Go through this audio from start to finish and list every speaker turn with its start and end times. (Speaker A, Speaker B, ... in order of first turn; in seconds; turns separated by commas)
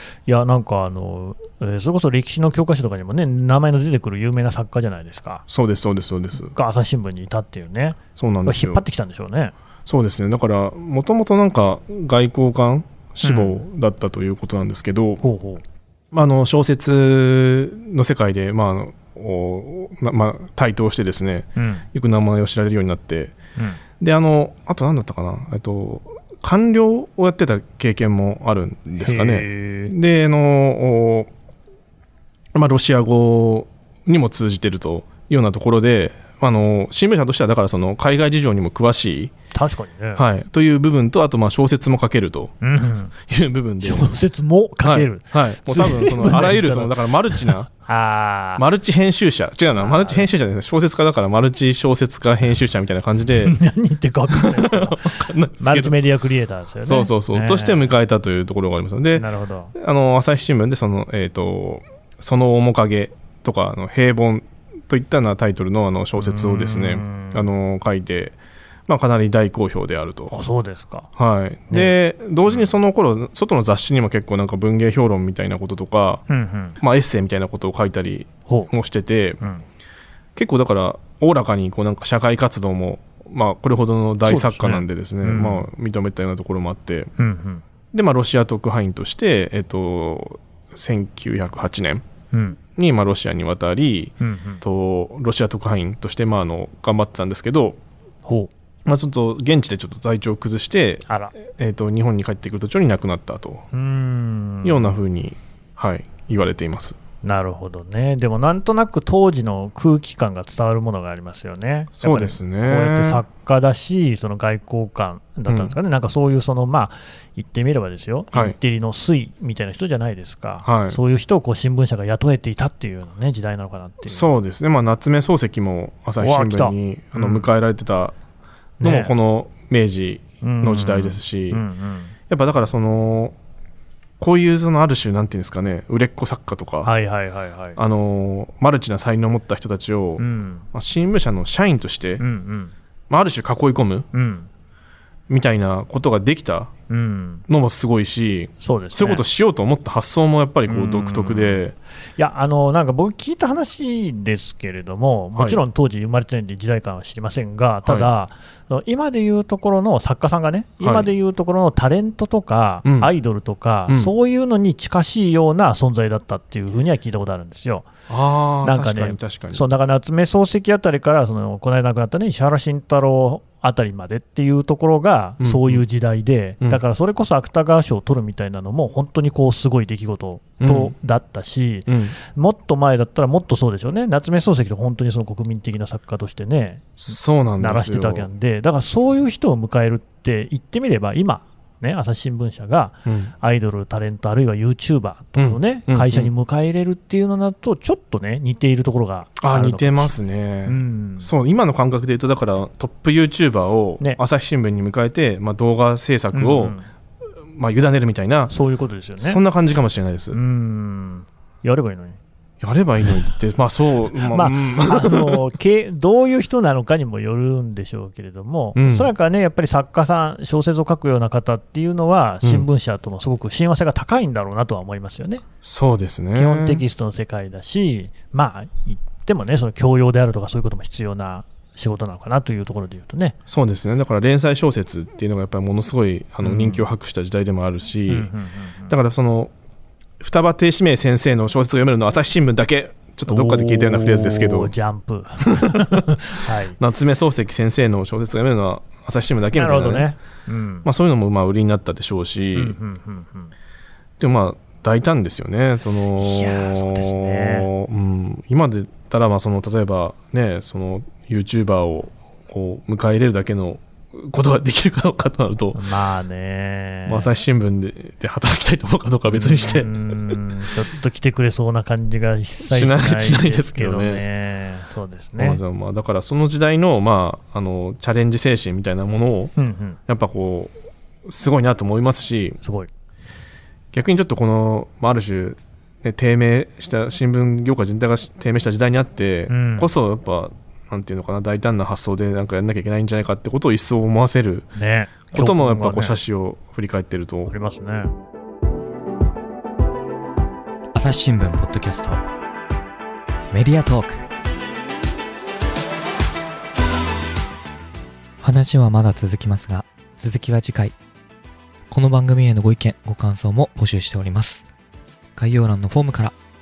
Speaker A: 0.3-5.4, Speaker B: 5.5-6.5, Speaker A: 6.3-9.5, Speaker B: 8.2-8.8, Speaker B: 9.8-15.2, Speaker A: 13.2-13.6, Speaker A: 15.2-15.6, Speaker B: 16.1-23.3, Speaker A: 21.6-21.9, Speaker B: 24.0-31.3, Speaker A: 29.0-29.9, Speaker B: 32.5-39.3, Speaker A: 39.5-40.2, Speaker B: 40.1-42.5, Speaker A: 42.6-43.1, Speaker B: 43.2-44.1, Speaker A: 43.8-48.6, Speaker B: 44.8-47.7, Speaker B: 48.6-53.6, Speaker A: 49.8-50.3, Speaker A: 53.4-57.9, Speaker B: 54.3-56.0, Speaker B: 56.8-70.4, Speaker A: 59.1-59.7, Speaker A: 66.2-67.5, Speaker A: 70.3-71.1, Speaker B: 71.2-76.2, Speaker A: 76.3-76.8, Speaker B: 76.8-79.4, Speaker A: 78.5-78.7, Speaker B: 80.3-87.1, Speaker A: 84.2-85.7, Speaker A: 87.2-87.6, Speaker B: 87.9-92.0, Speaker A: 92.3-92.6, Speaker B: 92.8-97.8, Speaker A: 94.2-94.6, Speaker A: 98.2-98.5, Speaker B: 98.8-103.6, Speaker A: 101.1-101.3, Speaker A: 103.7-105.0, Speaker B: 104.6-107.0, Speaker A: 107.2-124.2, Speaker B: 112.0-113.2, Speaker B: 115.5-115.8, Speaker B: 120.6-121.0, Speaker B: 124.1-128.2, Speaker A: 126.2-127.5, Speaker A: 128.8-129.1, Speaker B: 128.8-131.6, Speaker A: 130.4-132.1, Speaker B: 132.3-133.3, Speaker B: 134.2-136.9, Speaker A: 136.8-137.8, Speaker B: 137.8-142.2, Speaker A: 140.2-140.7, Speaker A: 142.2-142.7, Speaker B: 143.1-144.1, Speaker A: 144.1-144.5, Speaker B: 145.3-146.7, Speaker A: 146.9-147.4, Speaker B: 147.5-151.7, Speaker A: 148.6-149.2, Speaker A: 150.7-151.6, Speaker A: 152.2-167.9, Speaker B: 157.8-158.1, Speaker B: 160.8-161.1, Speaker B: 162.8-163.1, Speaker B: 163.9-164.1, Speaker B: 168.1-169.6, Speaker A: 168.6-200.1, Speaker B: 175.4-175.8, Speaker B: 180.6-180.9, Speaker B: 181.9-182.2, Speaker B: 187.0-188.3, Speaker B: 193.0-193.3, Speaker B: 195.4-196.3, Speaker B: 199.4-206.7, Speaker A: 200.7-201.3, Speaker A: 206.3-206.9, Speaker B: 207.5-208.5, Speaker A: 208.5-209.4, Speaker B: 209.2-210.4, Speaker A: 210.3-212.2, Speaker B: 212.6-215.4, Speaker A: 214.3-225.4, Speaker B: 218.8-219.1, Speaker B: 222.4-222.7, Speaker B: 225.6-226.8, Speaker A: 226.3-233.4, Speaker B: 233.5-238.3, Speaker A: 236.4-236.9, Speaker A: 238.1-238.9, Speaker B: 238.9-239.5, Speaker B: 240.2-244.7, Speaker A: 243.3-246.8, Speaker B: 245.5-246.1, Speaker B: 246.8-250.1, Speaker A: 249.5-250.9, Speaker B: 250.8-252.8, Speaker A: 252.5-253.5, Speaker B: 254.2-265.8, Speaker A: 256.2-257.7, Speaker A: 265.7-267.3, Speaker B: 267.1-270.4, Speaker A: 269.3-275.6, Speaker B: 272.6-274.2, Speaker B: 275.4-279.5, Speaker A: 279.6-280.0, Speaker B: 280.1-280.7, Speaker B: 281.2-282.6, Speaker A: 282.6-282.9, Speaker B: 283.9-294.7, Speaker A: 289.5-289.9, Speaker A: 294.7-296.2, Speaker B: 295.3-297.5, Speaker A: 297.5-298.1, Speaker C: 300.9-302.2, Speaker C: 303.5-304.2, Speaker C: 308.4-310.9, Speaker C: 311.9-314.6, Speaker C: 315.4-316.3